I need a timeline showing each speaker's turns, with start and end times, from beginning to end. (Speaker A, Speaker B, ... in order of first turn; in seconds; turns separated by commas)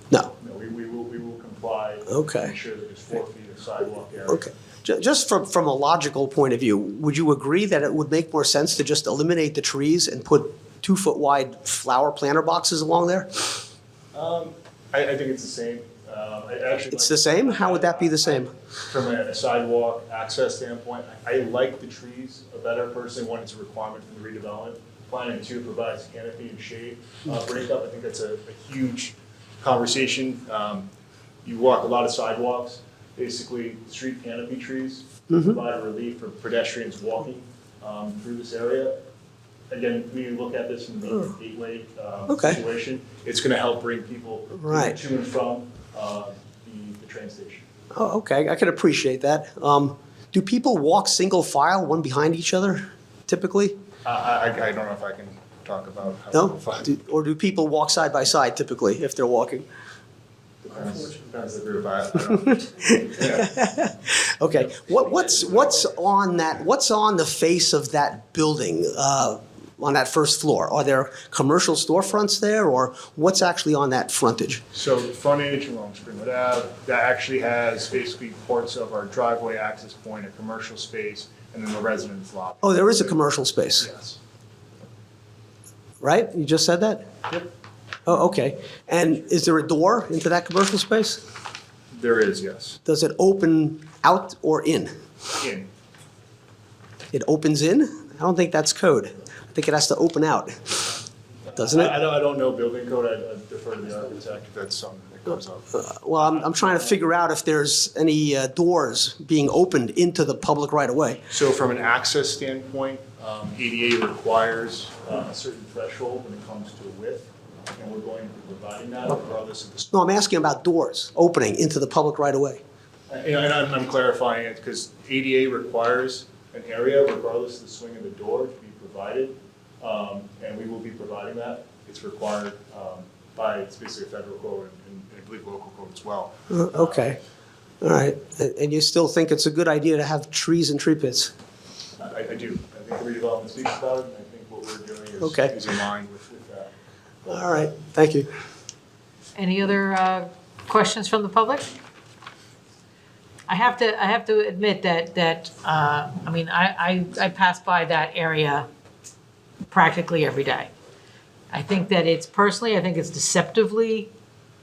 Speaker A: 0.4-4.5, Speaker B: 2.1-2.5, Speaker B: 4.3-13.5, Speaker A: 14.1-30.9, Speaker B: 16.9-18.5, Speaker A: 31.4-39.0, Speaker B: 35.3-35.6, Speaker A: 39.7-47.7, Speaker B: 42.3-42.6, Speaker B: 44.5-45.0, Speaker B: 47.9-53.8, Speaker A: 54.0-56.9, Speaker B: 56.3-59.7, Speaker A: 60.6-63.5, Speaker B: 62.5-74.6, Speaker A: 64.7-65.8, Speaker A: 74.7-83.2, Speaker B: 82.6-83.9, Speaker A: 83.8-84.2, Speaker B: 86.0-87.1, Speaker B: 88.1-91.2, Speaker A: 91.9-92.8, Speaker B: 92.8-94.9, Speaker A: 95.4-95.7, Speaker B: 97.1-100.9, Speaker A: 101.5-107.0, Speaker B: 101.6-101.9, Speaker B: 105.7-111.2, Speaker A: 111.3-119.9, Speaker B: 119.9-122.6, Speaker A: 123.1-137.2, Speaker B: 136.5-137.2, Speaker B: 137.8-141.3, Speaker A: 142.0-146.7, Speaker B: 145.2-145.6, Speaker B: 147.3-148.3, Speaker C: 149.4-151.7, Speaker C: 153.5-158.7, Speaker C: 159.7-160.7, Speaker C: 161.5-164.1